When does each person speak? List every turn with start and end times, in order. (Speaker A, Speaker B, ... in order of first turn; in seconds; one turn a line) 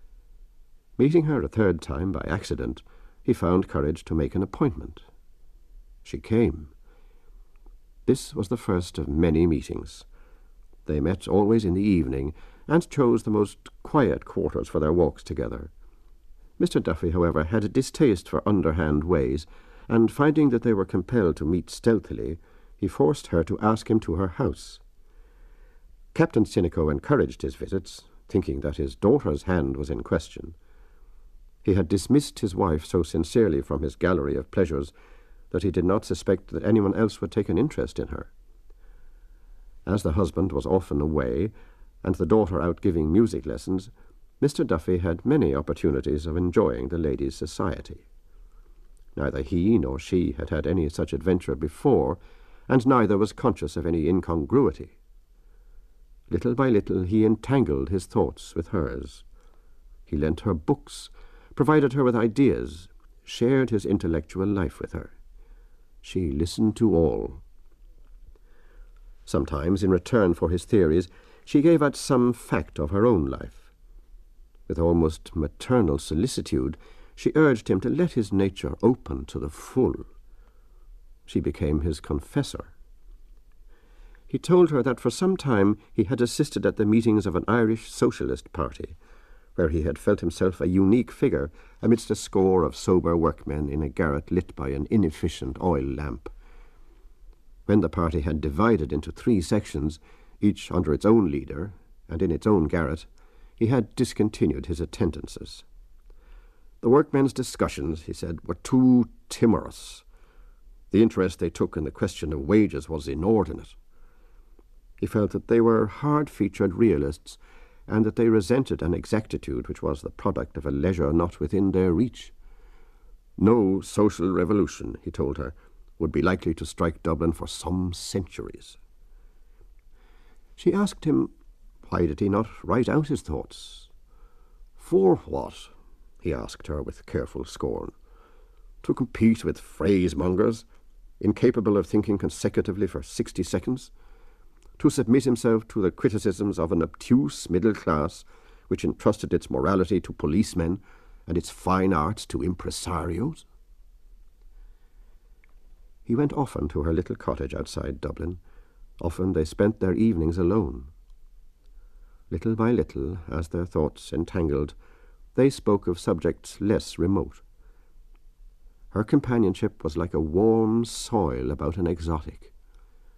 Speaker A: 1.0-5.0
Speaker A: 6.0-6.7
Speaker A: 8.1-10.1
Speaker A: 10.9-15.7
Speaker A: 16.6-24.8
Speaker A: 26.1-30.6
Speaker A: 31.6-34.9
Speaker A: 35.5-38.3
Speaker A: 39.9-48.0
Speaker A: 49.2-55.0
Speaker A: 56.3-59.2
Speaker A: 60.1-65.1
Speaker A: 66.0-67.4
Speaker A: 69.3-73.7
Speaker A: 74.7-80.1
Speaker A: 81.3-82.7
Speaker A: 84.3-89.0
Speaker A: 89.6-96.3
Speaker A: 97.7-103.1
Speaker A: 103.6-105.7
Speaker A: 106.8-110.0
Speaker A: 110.9-113.8
Speaker A: 115.0-122.3
Speaker A: 123.4-128.8
Speaker A: 130.6-131.3
Speaker A: 131.8-133.9
Speaker A: 134.8-137.9
Speaker A: 138.8-140.7
Speaker A: 141.2-143.9
Speaker A: 144.8-153.4
Speaker A: 156.1-158.4
Speaker A: 159.0-160.9
Speaker A: 162.3-164.8
Speaker A: 165.3-167.4
Speaker A: 168.9-172.5